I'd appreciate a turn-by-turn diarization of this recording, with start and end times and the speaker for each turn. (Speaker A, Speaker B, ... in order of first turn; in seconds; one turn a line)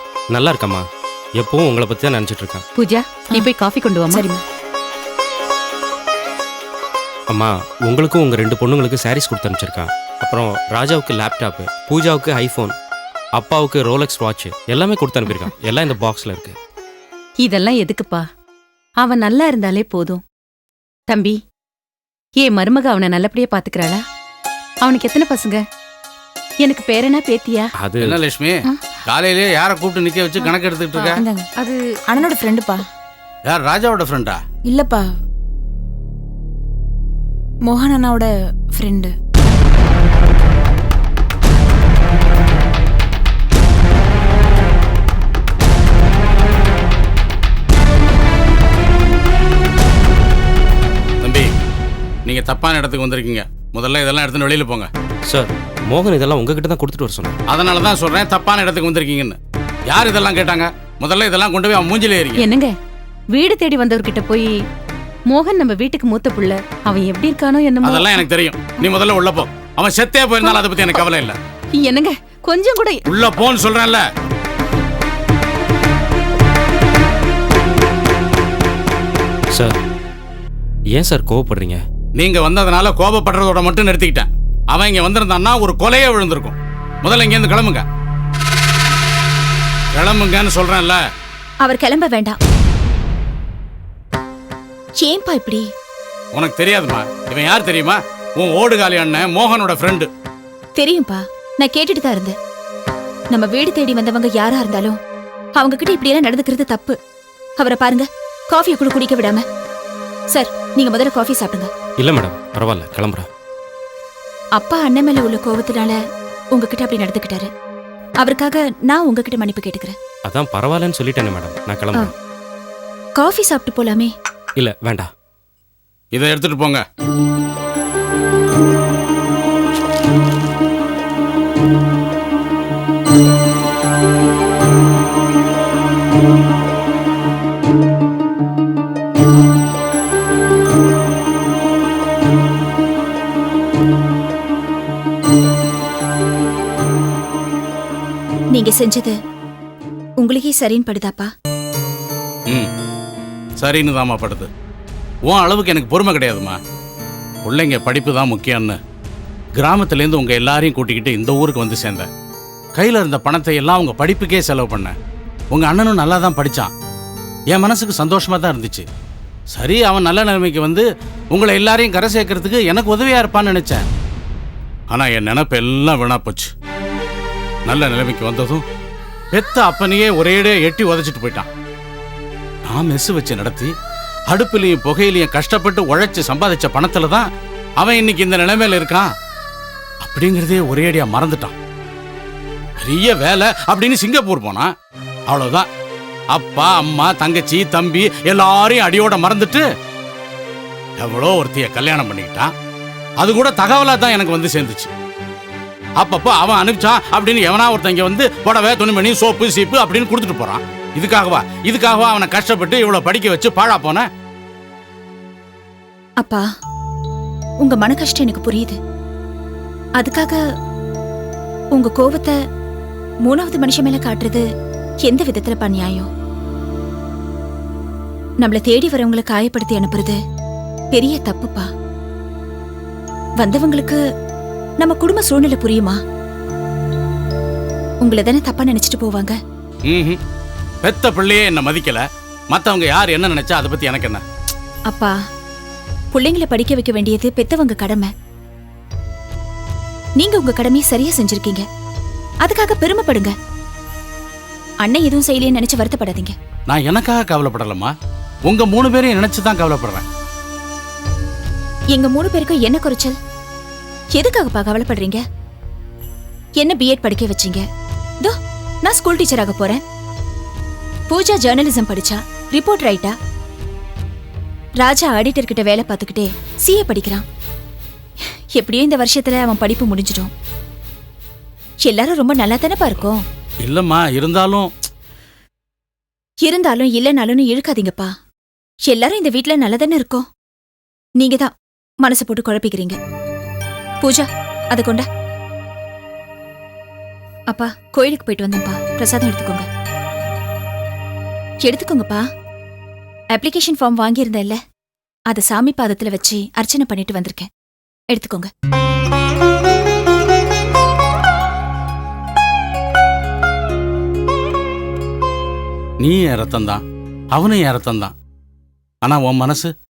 Speaker A: 0.3-0.8
Speaker A: 1.4-2.6
Speaker B: 2.8-4.3
Speaker C: 4.1-4.4
Speaker A: 7.3-12.8
Speaker A: 13.4-16.6
Speaker B: 17.4-18.2
Speaker B: 19.0-20.2
Speaker B: 21.1-21.4
Speaker B: 22.4-24.0
Speaker B: 24.8-25.6
Speaker B: 26.6-27.7
Speaker A: 27.8-28.1
Speaker D: 28.0-28.6
Speaker D: 29.1-31.2
Speaker B: 30.4-31.8
Speaker C: 31.2-31.5
Speaker C: 32.1-32.8
Speaker D: 33.5-34.4
Speaker C: 34.6-35.1
Speaker C: 37.7-39.1
Speaker D: 51.2-51.5
Speaker D: 52.3-54.9
Speaker A: 55.3-57.3
Speaker D: 57.5-59.4
Speaker D: 59.9-62.5
Speaker B: 62.4-62.7
Speaker B: 63.3-64.5
Speaker B: 65.3-68.2
Speaker D: 67.8-71.4
Speaker B: 71.8-73.0
Speaker D: 73.1-74.0
Speaker A: 79.5-79.8
Speaker A: 80.9-81.8
Speaker D: 82.2-87.8
Speaker D: 90.0-91.0
Speaker E: 91.6-92.4
Speaker E: 95.0-95.7
Speaker D: 96.3-100.1
Speaker E: 100.8-102.4
Speaker E: 103.3-105.0
Speaker E: 105.6-107.0
Speaker E: 107.6-109.4
Speaker E: 110.3-111.7
Speaker A: 112.0-113.3
Speaker E: 114.6-116.0
Speaker E: 116.5-117.5
Speaker E: 118.2-120.0
Speaker A: 120.3-122.1
Speaker E: 123.2-124.1
Speaker A: 124.6-125.1
Speaker D: 126.1-126.8
Speaker E: 148.5-149.2
Speaker E: 150.2-151.3
Speaker D: 153.6-154.5
Speaker D: 155.3-156.6
Speaker D: 157.4-158.8
Speaker D: 159.6-162.1
Speaker D: 162.8-165.0
Speaker D: 165.5-166.7
Speaker D: 167.5-168.9
Speaker D: 169.5-173.8
Speaker D: 174.9-176.5
Speaker D: 177.7-178.6
Speaker D: 179.3-181.5
Speaker D: 182.7-183.7
Speaker D: 184.3-187.3
Speaker D: 187.8-189.1
Speaker D: 190.0-191.6
Speaker D: 192.8-194.7
Speaker D: 195.3-195.7
Speaker D: 196.3-199.6
Speaker D: 201.0-202.5
Speaker D: 203.2-204.9
Speaker D: 206.0-214.1
Speaker E: 216.2-216.5
Speaker E: 217.6-218.8
Speaker E: 220.0-220.4
Speaker E: 221.8-222.4
Speaker E: 223.3-224.4
Speaker E: 225.0-226.1
Speaker E: 228.4-230.2
Speaker E: 230.9-231.7
Speaker E: 233.4-234.0
Speaker E: 234.8-236.0
Speaker E: 238.0-239.4
Speaker D: 239.9-240.2
Speaker D: 240.8-244.2
Speaker E: 244.9-245.2
Speaker E: 246.1-248.1
Speaker E: 250.2-251.7
Speaker E: 252.4-253.3
Speaker E: 254.8-256.4
Speaker D: 256.7-257.9
Speaker D: 258.5-260.1
Speaker E: 261.9-263.2
Speaker E: 264.1-265.2
Speaker E: 266.6-267.7
Speaker E: 268.2-269.8
Speaker E: 271.1-273.1
Speaker E: 274.8-277.2
Speaker E: 278.6-280.3
Speaker E: 281.9-283.2
Speaker D: 283.6-284.7
Speaker E: 286.4-288.1
Speaker E: 288.9-290.3
Speaker E: 291.2-293.0
Speaker E: 294.0-295.1
Speaker E: 297.5-299.7
Speaker E: 301.6-302.2
Speaker E: 303.3-304.6
Speaker E: 305.3-307.5
Speaker E: 308.1-308.5
Speaker D: 316.0-316.8
Speaker D: 317.3-318.1
Speaker D: 319.0-319.7